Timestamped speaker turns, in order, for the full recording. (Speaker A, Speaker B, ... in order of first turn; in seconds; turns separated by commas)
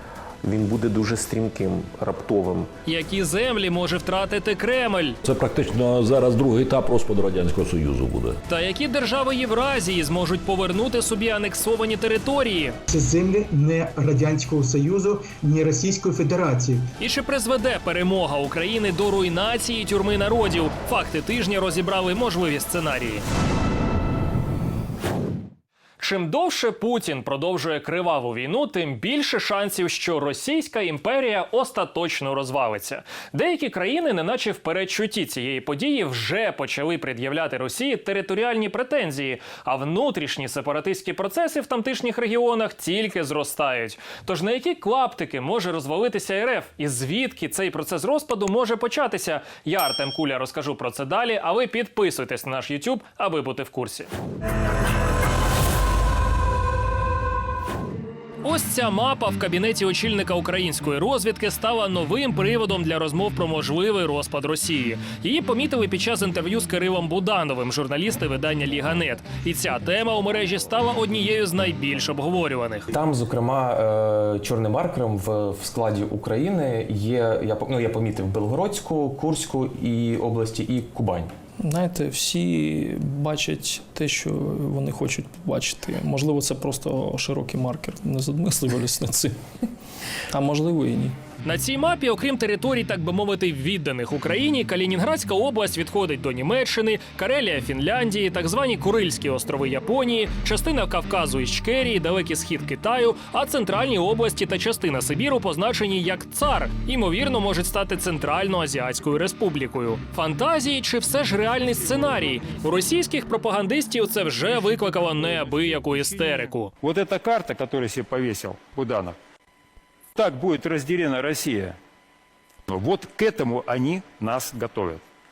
Speaker A: 0.4-2.7, Speaker B: 2.9-5.2, Speaker C: 5.2-8.4, Speaker B: 8.5-12.7, Speaker D: 12.9-16.8, Speaker B: 17.0-23.2, Speaker B: 26.0-54.1, Speaker B: 58.4-72.8, Speaker E: 72.9-81.3, Speaker F: 81.6-89.4, Speaker F: 90.3-91.2, Speaker B: 91.4-116.7, Speaker G: 116.8-119.2, Speaker G: 120.2-121.8, Speaker G: 122.7-125.0